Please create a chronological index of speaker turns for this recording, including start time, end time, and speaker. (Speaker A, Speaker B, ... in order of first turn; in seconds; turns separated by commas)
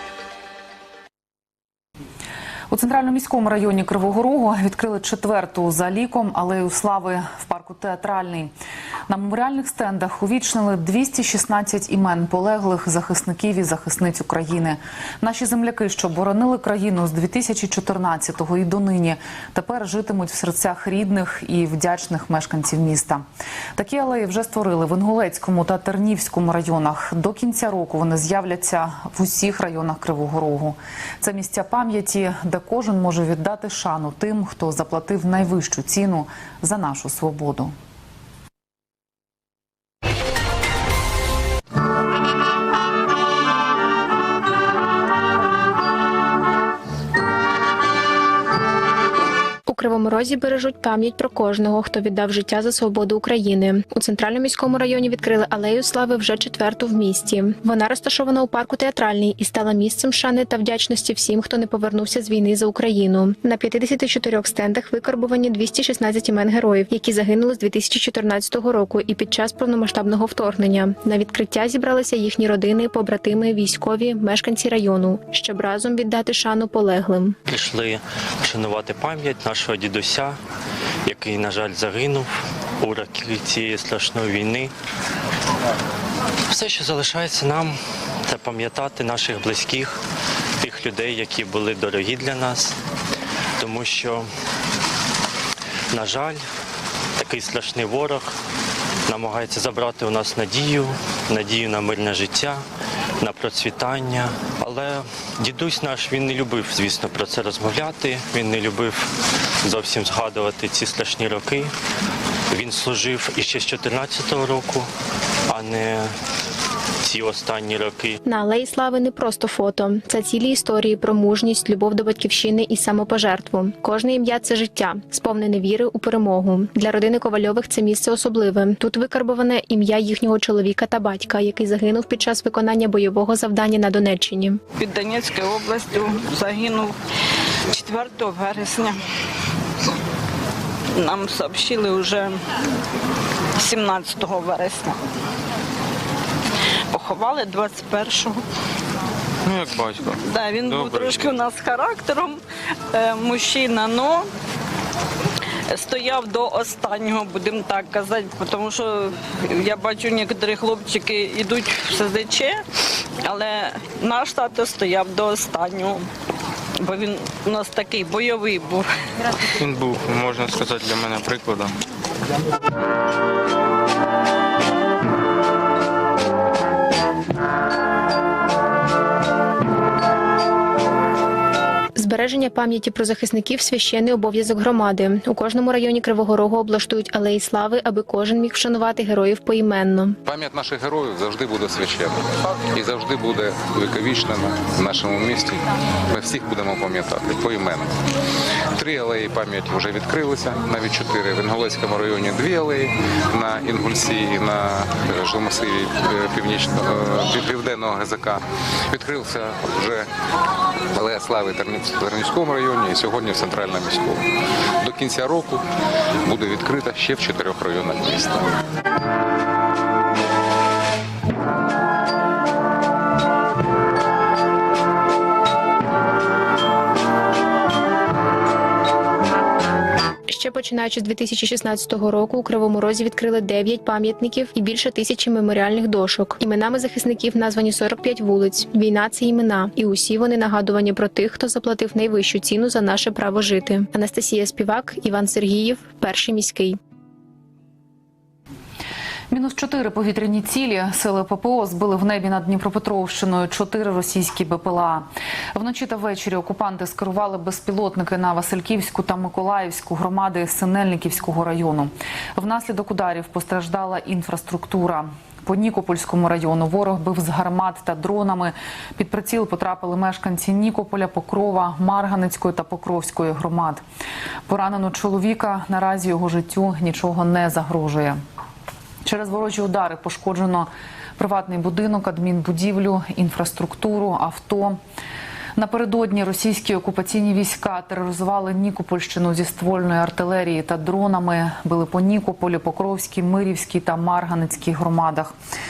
Speaker A: 2.7-8.5, Speaker A: 9.1-37.8, Speaker B: 49.7-77.4, Speaker C: 77.5-80.4, Speaker C: 81.0-84.7, Speaker C: 86.5-90.0, Speaker C: 90.6-92.8, Speaker C: 93.6-94.3, Speaker C: 95.9-96.4, Speaker C: 97.2-98.3, Speaker C: 99.1-102.6, Speaker C: 103.2-109.1, Speaker C: 109.6-111.7, Speaker C: 112.5-114.9, Speaker C: 115.5-116.1, Speaker C: 117.0-118.2, Speaker B: 118.2-134.6, Speaker D: 134.8-136.9, Speaker D: 137.7-139.0, Speaker D: 141.0-142.4, Speaker D: 143.6-145.0, Speaker D: 146.9-148.4, Speaker E: 149.4-151.4, Speaker D: 150.1-152.4, Speaker D: 152.9-154.3, Speaker D: 155.7-162.6, Speaker D: 163.2-166.1, Speaker D: 166.8-168.9, Speaker E: 169.6-171.8, Speaker B: 182.0-190.2, Speaker F: 190.2-198.0, Speaker F: 198.7-210.1, Speaker F: 210.9-214.2, Speaker F: 214.8-215.6, Speaker F: 216.2-218.5, Speaker B: 230.3-246.8, Speaker A: 249.3-273.8, Speaker A: 274.5-278.2, Speaker A: 279.1-284.8, Speaker A: 285.6-295.3